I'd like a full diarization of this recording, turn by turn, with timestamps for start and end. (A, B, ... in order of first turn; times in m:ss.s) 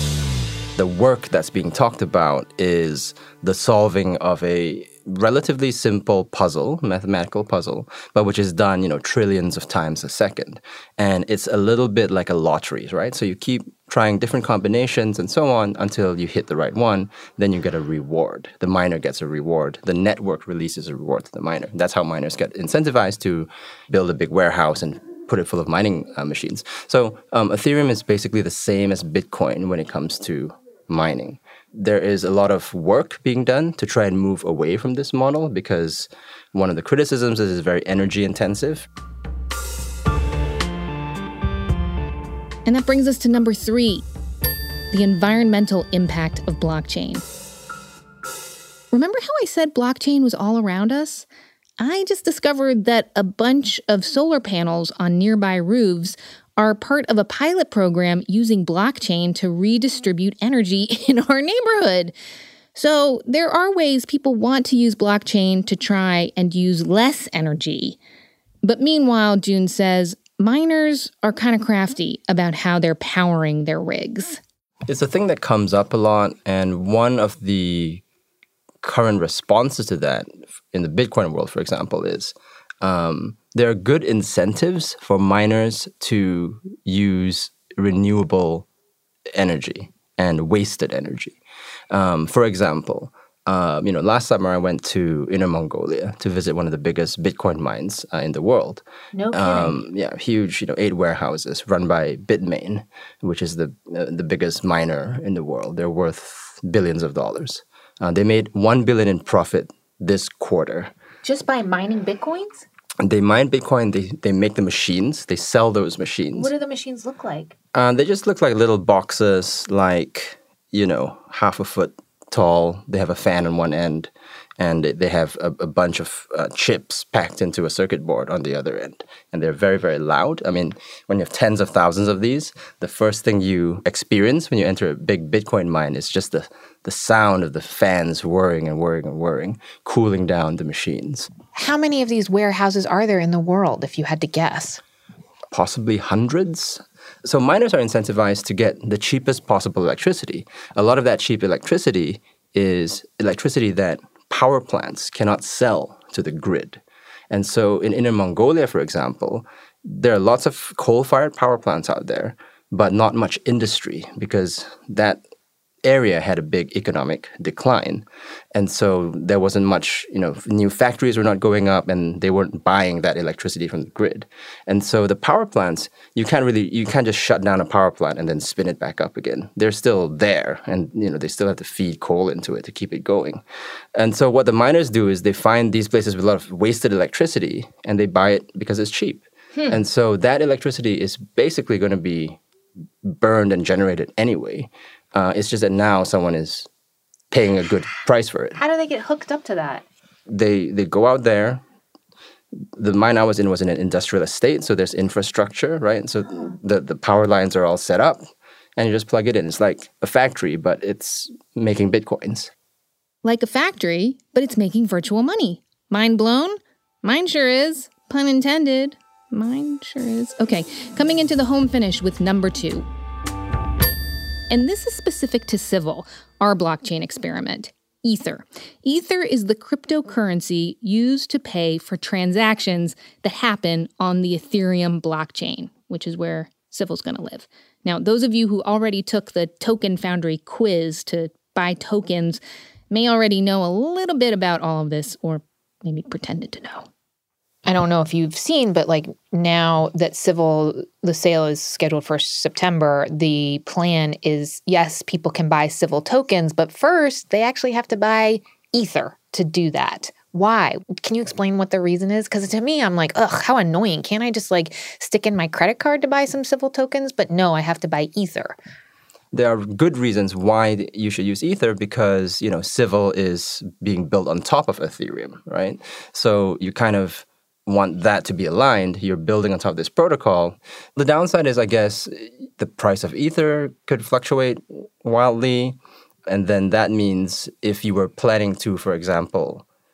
0:00.8-0:38.9 A
0:42.6-0:44.0 B
0:44.9-0:47.2 B
0:48.9-0:51.3 B
0:51.8-1:02.1 B
1:02.7-1:08.0 B
1:08.6-1:14.4 B
1:14.9-1:18.0 A
1:18.8-1:28.6 A
1:29.3-1:31.4 A
1:31.9-1:50.9 A
1:39.1-1:39.8 C
1:51.2-1:52.6 C
1:53.0-1:56.5 A
1:56.4-1:57.5 C
1:57.7-2:21.3 A
2:21.5-2:24.8 C
2:25.5-2:45.2 A
2:45.8-3:03.4 A
3:03.9-3:12.4 A
3:13.0-3:16.7 A
3:17.3-3:18.6 A
3:18.6-3:19.8 C
3:20.3-3:21.6 A
3:22.8-3:32.5 A
3:33.2-3:42.9 B
3:44.5-4:06.9 B
4:07.6-4:28.6 C
4:29.3-4:49.6 A